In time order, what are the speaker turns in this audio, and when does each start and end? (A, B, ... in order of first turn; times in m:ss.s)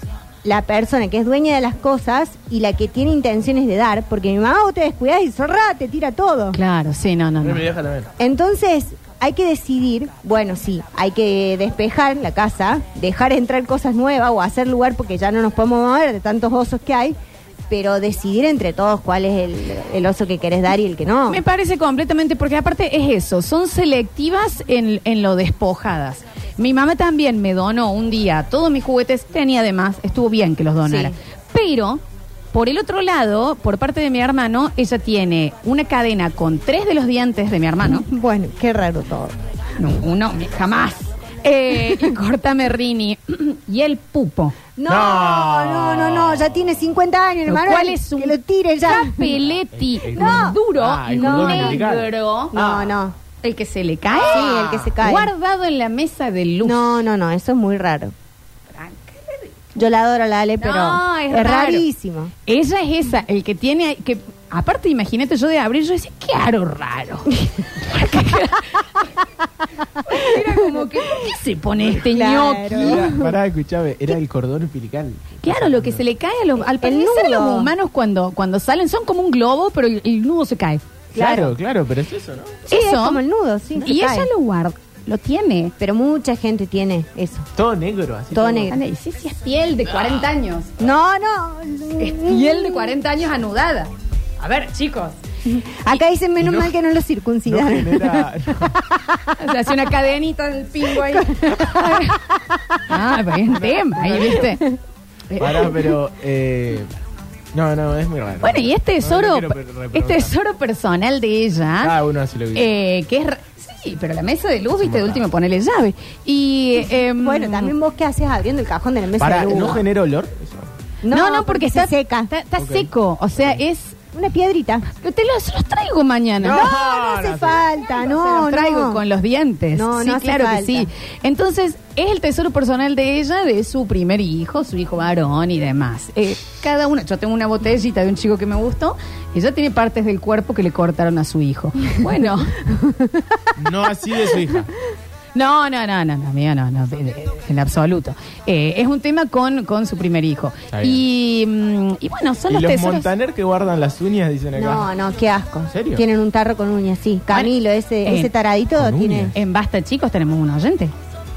0:00.4-0:06.6 A
0:06.5-0:07.6 B
0:07.4-0:08.1 C
0:08.2-0:17.2 A
0:17.7-0:21.4 A
0:21.3-0:32.0 B
0:30.8-0:31.1 A
0:32.5-0:38.0 B
0:37.8-0:39.3 A
0:39.8-0:44.5 B
0:44.8-0:49.3 A
0:44.9-0:46.8 C
0:47.5-0:52.5 B
0:49.4-0:53.0 C
0:50.1-0:50.6 A
0:51.1-0:51.8 A
0:52.5-0:53.2 A
0:53.4-0:57.0 B
0:54.2-0:54.9 C
0:54.2-0:55.3 A
0:56.6-0:58.1 A
0:58.8-0:59.8 B
0:59.7-1:02.3 A
1:00.6-1:01.8 B
1:02.5-1:08.9 B
1:10.0-1:13.1 B
1:10.2-1:10.5 A
1:11.9-1:13.3 A
1:12.7-1:16.0 C
1:15.4-1:20.8 B
1:16.8-1:17.7 A
1:21.1-1:21.5 A
1:21.1-1:22.7 C
1:22.7-1:23.2 B
1:22.7-1:24.3 A
1:23.8-1:25.7 B
1:25.8-1:27.5 A
1:27.6-1:28.8 C
1:28.3-1:28.8 A
1:28.7-1:30.7 B
1:29.9-1:30.2 C
1:30.8-1:33.0 A
1:32.0-1:35.2 B
1:35.4-1:39.3 A
1:36.4-1:36.8 C
1:37.4-1:38.8 C
1:39.4-1:42.2 B
1:40.9-1:42.2 A
1:42.9-1:44.7 B
1:43.5-1:44.4 C
1:44.1-1:44.8 A
1:45.3-1:45.7 B
1:45.3-1:46.9 C
1:47.5-1:50.3 C
1:48.4-1:52.0 B
1:51.8-1:52.7 C
1:52.5-1:57.7 B
1:54.8-1:55.2 C
1:57.1-1:59.8 A
1:59.2-2:00.7 C
2:01.0-2:02.3 A
2:01.1-2:04.0 B
2:02.6-2:03.6 C
2:04.1-2:04.8 A
2:04.9-2:06.7 B
2:06.4-2:07.8 C
2:06.4-2:09.0 A
2:07.9-2:22.6 B
2:09.7-2:10.9 A
2:22.7-2:23.1 A
2:23.6-2:24.7 C
2:25.3-2:33.1 B
2:30.7-2:31.0 C
2:32.5-2:34.9 C
2:34.6-2:39.3 A
2:35.7-2:36.0 C
2:38.0-2:38.3 B
2:38.7-2:39.3 C
2:39.3-2:40.9 B